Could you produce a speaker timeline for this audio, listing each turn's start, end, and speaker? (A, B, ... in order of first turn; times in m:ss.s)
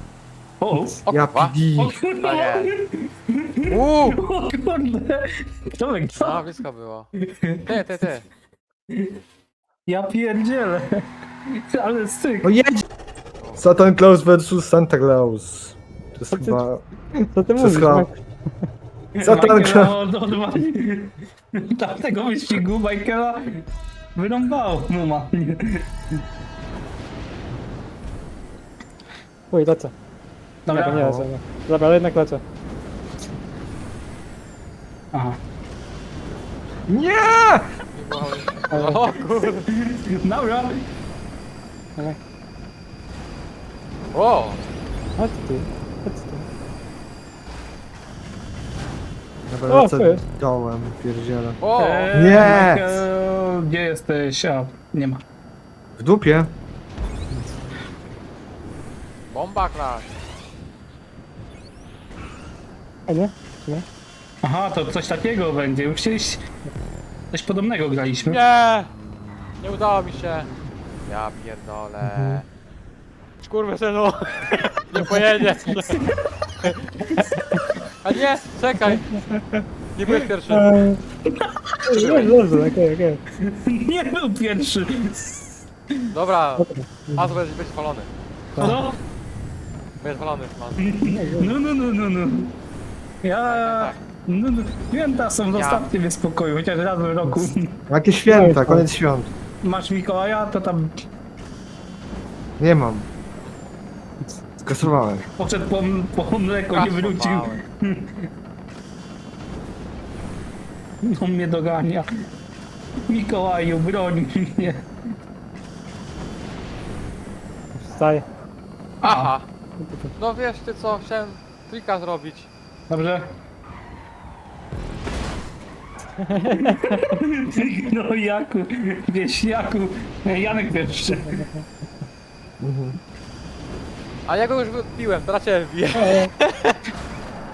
0:00.6-0:01.0 A
0:01.1-0:01.6 B
0:01.1-0:02.0 C
0:01.8-0:06.5 A
0:02.2-0:02.7 B
0:03.7-0:04.2 B
0:06.1-0:07.1 B
0:07.4-0:07.8 A
0:07.6-0:08.2 B
0:09.9-0:11.0 A
0:11.7-0:12.5 A
0:12.4-0:12.8 C
0:13.6-0:16.8 C
0:17.3-0:18.2 D
0:17.6-0:18.1 C
0:19.2-0:26.2 A
0:19.2-0:20.0 C
0:29.5-0:29.9 D
0:30.7-0:31.0 A
0:30.7-0:32.4 D
0:31.0-0:31.3 C
0:35.1-0:35.4 A
0:36.9-0:37.7 C
0:37.9-0:39.7 B
0:38.7-0:39.0 D
0:39.7-0:40.8 A
0:44.1-0:44.6 B
0:45.2-0:46.5 D
0:49.5-0:51.6 C
0:49.7-0:50.2 D
0:51.6-0:52.2 B
0:51.8-0:55.2 A
0:52.1-0:53.0 C
0:56.0-0:56.5 C
0:59.3-1:00.1 B
1:03.1-1:03.9 D
1:04.4-1:06.4 A
1:07.3-1:08.4 A
1:08.3-1:08.9 B
1:09.6-1:10.5 B
1:11.0-1:12.5 B
1:13.4-1:16.0 B
1:16.0-1:16.5 A
1:16.6-1:16.9 B
1:17.1-1:17.6 A
1:18.0-1:19.2 B
1:19.3-1:19.6 D
1:19.9-1:20.9 B
1:20.5-1:21.0 D
1:21.5-1:22.0 A
1:21.9-1:22.4 B
1:21.9-1:23.2 D
1:23.4-1:25.6 A
1:26.1-1:28.1 B
1:26.6-1:27.2 D
1:28.6-1:29.0 A
1:30.0-1:31.0 B
1:30.8-1:32.5 A
1:31.0-1:31.5 D
1:33.2-1:37.7 A
1:33.4-1:34.0 B
1:35.4-1:35.9 B
1:37.9-1:39.3 C
1:38.3-1:38.9 D
1:39.6-1:40.9 A
1:42.6-1:43.1 C
1:44.6-1:45.2 C
1:45.4-1:48.3 A
1:46.7-1:47.6 B
1:51.0-1:52.1 A
1:53.1-1:54.9 A
1:57.8-1:58.3 D
1:59.0-1:59.5 B
1:59.0-1:59.3 A
1:59.8-2:00.1 D
2:00.2-2:02.5 B
2:02.9-2:03.3 A
2:06.2-2:07.2 D
2:06.5-2:11.3 A
2:11.2-2:11.6 D
2:12.6-2:13.0 C
2:14.3-2:16.8 B
2:16.0-2:16.3 D